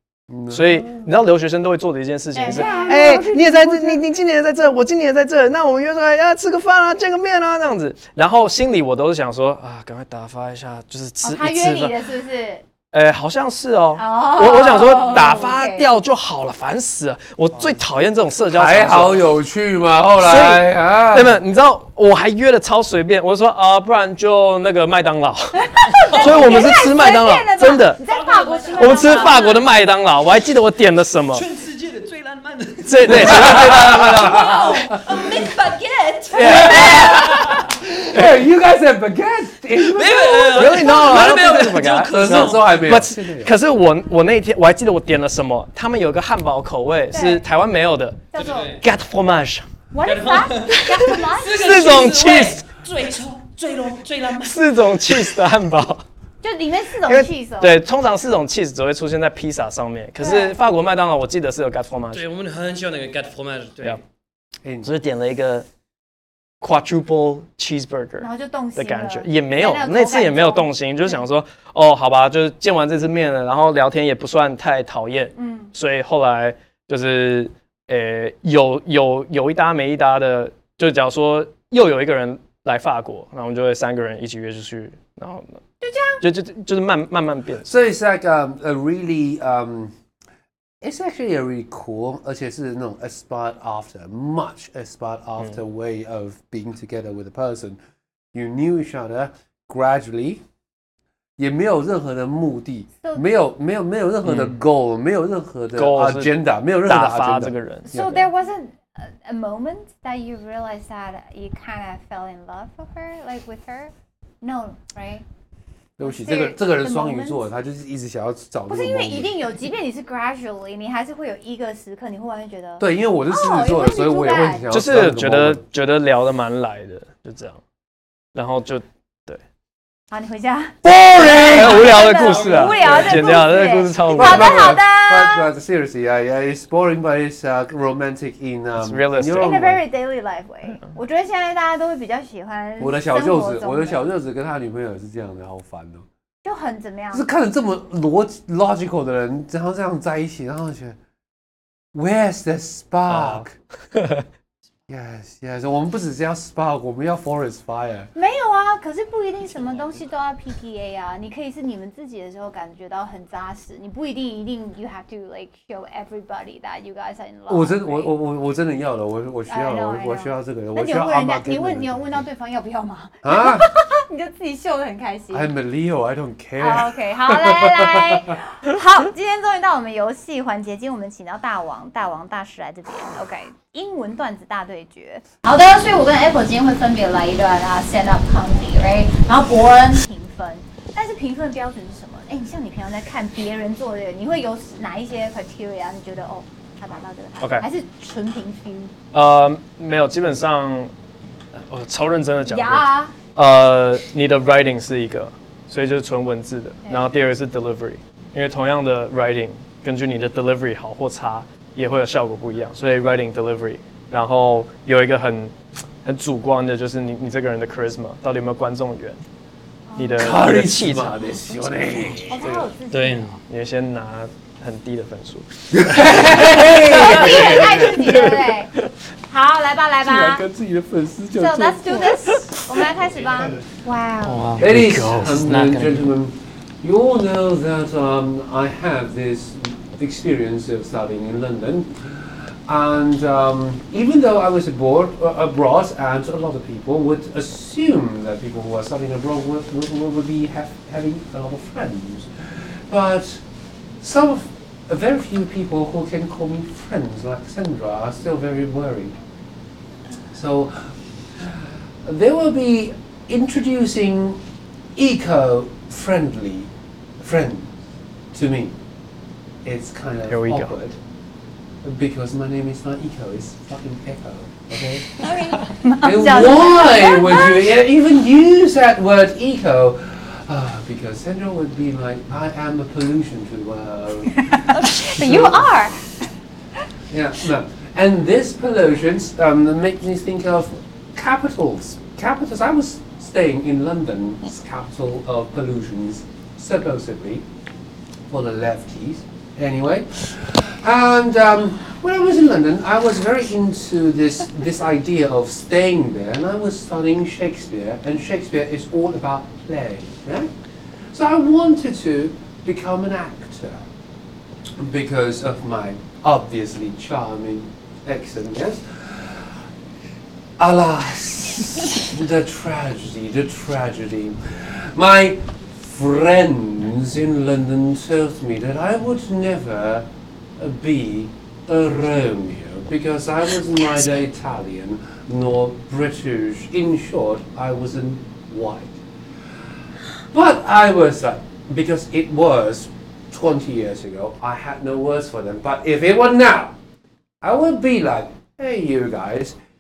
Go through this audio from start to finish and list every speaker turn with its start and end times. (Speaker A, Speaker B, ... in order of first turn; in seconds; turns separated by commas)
Speaker A: 0.3-1.1, Speaker B: 0.5-11.9, Speaker C: 2.4-4.0, Speaker C: 11.2-12.7, Speaker B: 12.9-19.3, Speaker C: 14.0-15.9, Speaker A: 18.5-21.4, Speaker B: 20.2-28.0, Speaker C: 25.6-29.7, Speaker D: 28.1-29.4, Speaker B: 28.8-31.5, Speaker D: 31.3-37.7, Speaker B: 32.8-34.8, Speaker A: 33.1-35.3, Speaker C: 34.2-35.5, Speaker B: 36.3-37.5, Speaker C: 36.4-37.2, Speaker A: 36.4-43.5, Speaker D: 39.8-42.6, Speaker B: 40.5-48.3, Speaker C: 47.1-47.4, Speaker C: 48.3-48.8, Speaker D: 48.4-48.8, Speaker B: 48.8-49.7, Speaker C: 49.9-51.7, Speaker D: 50.0-54.6, Speaker B: 50.7-52.6, Speaker B: 54.4-56.0, Speaker C: 56.4-57.8, Speaker B: 57.0-62.2, Speaker C: 60.2-60.6, Speaker D: 62.1-64.0, Speaker A: 64.6-64.9, Speaker B: 64.8-65.7, Speaker B: 66.6-85.6, Speaker C: 68.2-71.2, Speaker C: 75.4-75.7, Speaker C: 85.8-86.2, Speaker B: 86.2-87.8, Speaker A: 87.7-89.9, Speaker A: 90.8-97.8, Speaker A: 98.3-100.4, Speaker A: 101.4-108.3, Speaker B: 104.2-104.6, Speaker B: 105.8-108.0, Speaker C: 107.9-115.2, Speaker A: 116.0-119.3, Speaker C: 116.0-117.4, Speaker C: 118.7-124.7, Speaker A: 122.8-125.6, Speaker B: 124.7-127.6, Speaker B: 128.3-129.4, Speaker C: 130.1-135.5, Speaker A: 130.8-133.4, Speaker B: 130.9-134.7, Speaker A: 134.1-139.8, Speaker B: 138.8-139.6, Speaker C: 139.4-144.1, Speaker A: 142.8-146.1, Speaker C: 146.4-147.3, Speaker A: 147.1-151.0, Speaker A: 151.9-153.5, Speaker B: 153.1-154.3, Speaker A: 154.9-158.1, Speaker C: 158.2-168.1, Speaker A: 167.5-172.2, Speaker C: 169.5-175.5, Speaker A: 173.2-173.7, Speaker A: 175.3-178.4, Speaker C: 176.6-198.9, Speaker B: 199.1-200.9, Speaker B: 201.5-215.5, Speaker C: 202.5-203.1, Speaker B: 216.1-219.2, Speaker C: 219.9-220.4, Speaker B: 220.0-222.6, Speaker A: 220.1-222.6, Speaker C: 222.3-223.4, Speaker D: 222.9-223.4, Speaker B: 223.4-228.9, Speaker A: 225.7-227.9, Speaker C: 226.8-228.7, Speaker C: 229.3-230.5, Speaker A: 230.0-232.3, Speaker C: 231.4-234.6, Speaker B: 232.2-232.6, Speaker B: 234.3-235.7, Speaker A: 234.6-253.4, Speaker A: 254.0-259.2, Speaker A: 260.3-264.4, Speaker A: 264.9-266.7, Speaker A: 267.2-267.7, Speaker A: 268.3-268.8, Speaker A: 269.6-271.0, Speaker B: 270.3-270.7, Speaker A: 271.8-275.3, Speaker C: 275.2-277.7, Speaker A: 276.0-285.8, Speaker C: 284.5-286.1, Speaker A: 287.1-297.4, Speaker A: 298.3-310.5, Speaker A: 311.1-313.9, Speaker A: 314.8-319.6, Speaker A: 320.6-339.0, Speaker A: 340.3-346.8, Speaker A: 347.4-349.6